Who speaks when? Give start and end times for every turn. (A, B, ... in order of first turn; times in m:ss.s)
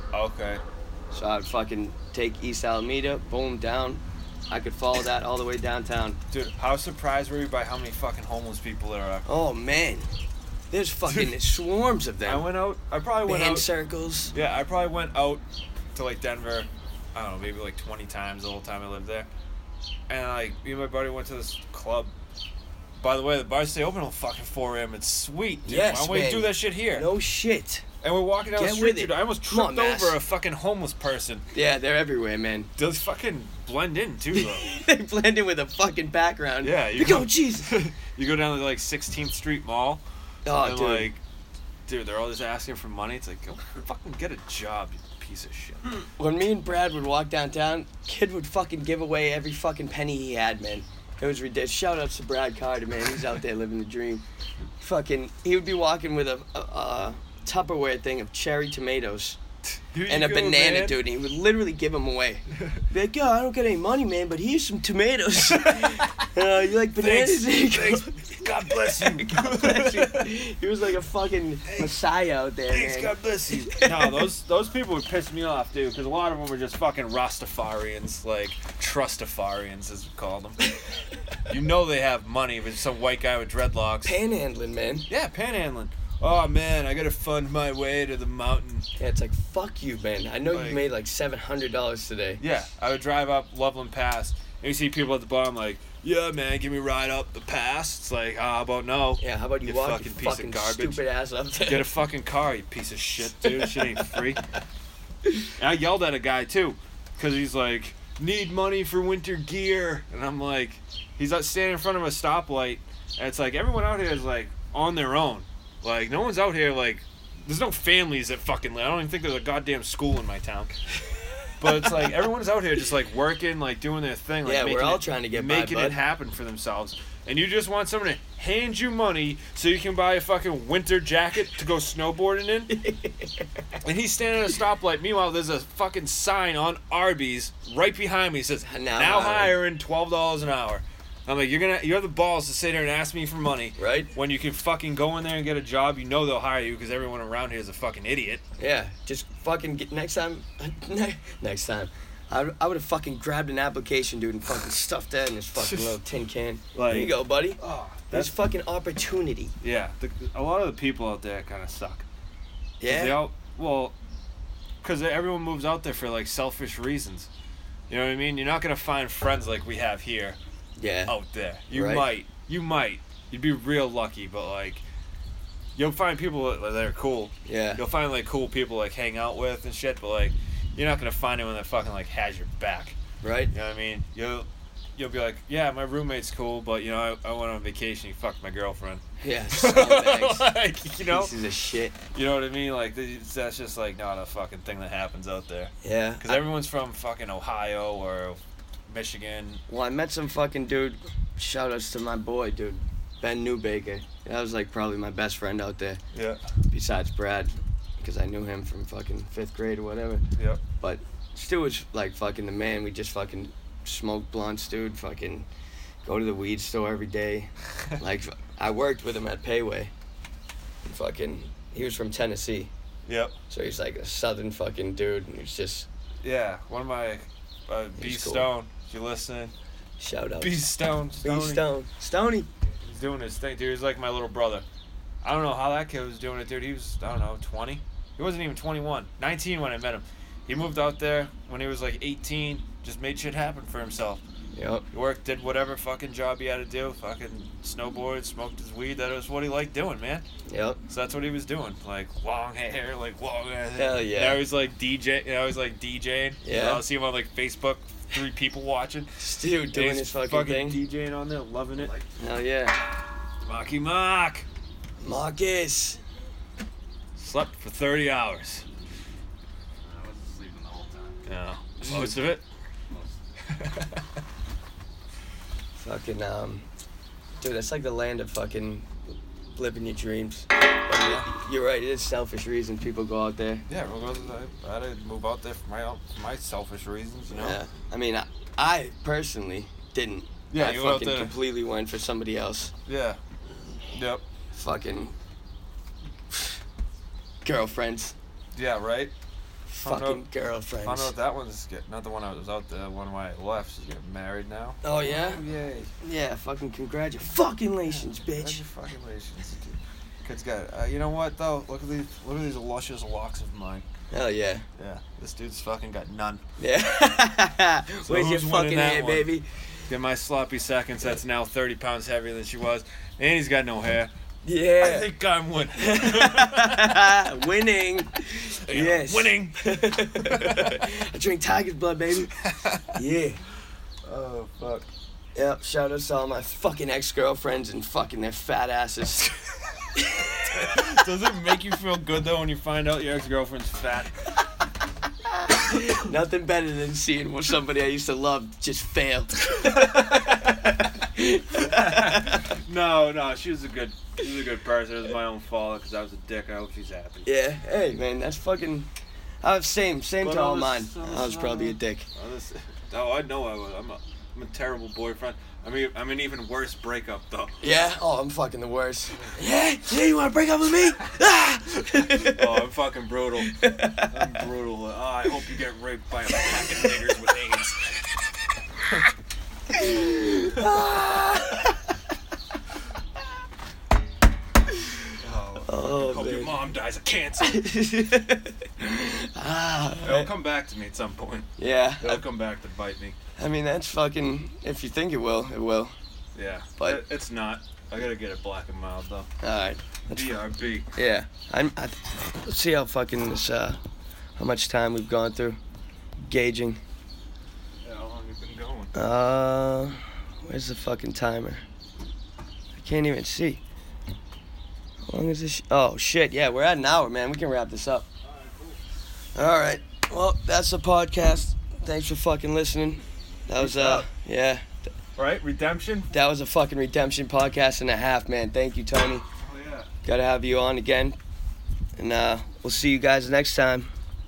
0:00.1-0:00.6 A
0:01.1-0:06.2 B
0:06.3-0:09.3 A
0:09.3-0:10.1 B
0:10.7-0:12.5 B
0:12.2-0:13.7 A
0:13.3-0:14.3 B
0:14.3-0:15.4 A
0:15.9-0:19.3 A
0:20.1-0:22.1 A
0:23.0-0:27.1 A
0:25.6-0:27.9 B
0:28.0-0:31.4 A
0:28.6-0:30.2 B
0:31.5-0:32.7 B
0:32.8-0:34.8 A
0:34.4-0:37.7 B
0:36.6-0:40.0 A
0:40.4-0:41.1 B
0:40.5-0:41.2 A
0:41.9-0:46.1 A
0:46.2-0:54.2 B
0:54.8-0:59.4 B
0:59.9-1:01.0 A
1:00.1-1:14.3 B
1:05.5-1:06.4 A
1:07.0-1:10.4 A
1:11.7-1:11.9 A
1:12.7-1:20.6 A
1:21.5-1:24.1 A
1:24.0-1:25.1 B
1:25.1-1:28.9 A
1:29.0-1:32.4 B
1:30.5-1:30.9 A
1:32.4-1:41.0 A
1:39.2-1:42.0 B
1:41.7-1:44.4 A
1:43.4-1:44.2 B
1:45.6-2:00.7 A
2:01.6-2:12.8 A
2:04.4-2:06.0 B
2:12.8-2:13.4 B
2:13.8-2:28.4 A
2:18.7-2:19.6 B
2:23.8-2:24.1 B
2:28.6-2:39.6 B
2:35.6-2:36.0 A
2:36.8-2:38.4 A
2:39.6-2:42.1 A
2:42.8-2:43.2 B
2:42.8-2:44.0 A
2:44.8-2:47.3 A
2:47.9-2:50.4 A
2:50.8-2:51.2 B
2:51.1-2:54.8 A
2:51.7-2:52.1 B
2:55.8-3:03.0 A
2:57.5-2:57.8 B
3:03.2-3:03.5 B
3:03.5-3:11.3 A
3:09.2-3:10.5 B
3:11.1-3:12.0 B
3:12.1-3:19.6 A
3:15.8-3:16.4 B
3:19.7-3:26.0 B
3:26.1-3:26.4 A
3:26.7-3:30.3 B
3:30.4-3:30.6 A
3:30.8-3:35.5 B
3:36.0-3:39.9 B
3:40.8-3:42.7 B
3:43.1-3:43.4 A
3:43.5-3:45.9 B
3:46.2-3:49.5 A
3:48.0-3:48.5 B
3:50.0-3:50.6 B
3:50.4-3:51.6 A
3:51.2-3:52.5 B
3:52.8-3:54.6 A
3:55.2-4:04.2 A
4:04.6-4:04.9 B
4:04.9-4:10.3 A
4:10.5-4:10.8 B
4:10.9-4:19.1 A
4:13.8-4:14.4 B
4:16.4-4:16.8 B
4:19.2-4:20.8 B
4:19.7-4:21.9 A
4:21.8-4:22.2 C
4:22.2-4:22.8 B
4:23.4-4:24.5 A
4:25.0-4:26.0 B
4:27.2-4:28.7 A
4:29.8-4:31.2 C
4:31.3-4:32.4 A
4:31.8-4:32.1 C
4:32.9-4:33.2 C
4:33.5-4:34.1 A
4:35.8-4:36.6 B
4:37.4-4:38.9 B
4:39.6-4:43.7 B
4:41.0-4:41.3 A
4:43.7-4:47.6 A
4:47.3-4:52.7 B
4:50.5-4:51.3 A
4:52.9-4:53.2 A
4:53.9-4:54.2 A
4:54.5-4:55.2 B
4:57.4-4:58.2 B
4:58.6-4:59.1 A
4:59.7-5:01.1 B
4:59.8-5:00.3 A
5:00.8-5:05.9 A
5:04.8-5:05.4 B
5:06.0-5:08.6 B
5:07.9-5:13.9 A
5:14.1-5:14.7 B
5:14.8-5:16.4 A
5:16.6-5:19.6 B
5:18.1-5:19.3 A
5:19.9-5:24.1 A
5:24.4-5:25.1 B
5:24.8-5:27.1 A
5:25.8-5:32.4 B
5:28.7-5:30.9 A
5:32.3-5:33.0 A
5:32.9-5:33.4 B
5:34.0-5:34.9 A
5:35.4-5:39.3 B
5:40.0-5:40.4 B
5:40.5-5:44.2 A
5:45.6-5:52.6 B
5:49.6-5:50.6 A
5:51.5-5:57.3 A
5:57.2-5:58.9 B
5:59.4-6:02.1 B
6:00.2-6:07.6 A
6:07.6-6:12.5 B
6:11.9-6:18.0 A
6:13.5-6:14.2 B
6:19.8-6:21.7 B
6:25.2-6:27.7 A
6:25.6-6:26.5 B
6:27.4-6:30.3 B
6:30.0-6:33.2 A
6:31.6-6:32.2 B
6:33.4-6:36.0 B
6:36.4-6:39.3 A
6:36.8-6:37.0 B
6:39.4-6:40.4 B
6:40.1-6:40.9 A
6:40.9-6:43.8 B
6:44.4-6:45.6 B
6:46.2-6:46.8 B
6:47.8-6:48.9 A
6:48.9-6:51.6 B
6:52.8-6:53.6 B
6:55.1-6:58.1 B
6:59.4-7:04.7 B
7:03.6-7:04.1 A
7:05.2-7:06.1 A
7:06.1-7:09.2 B
7:09.4-7:09.9 A
7:10.0-7:11.2 B
7:12.0-7:13.9 B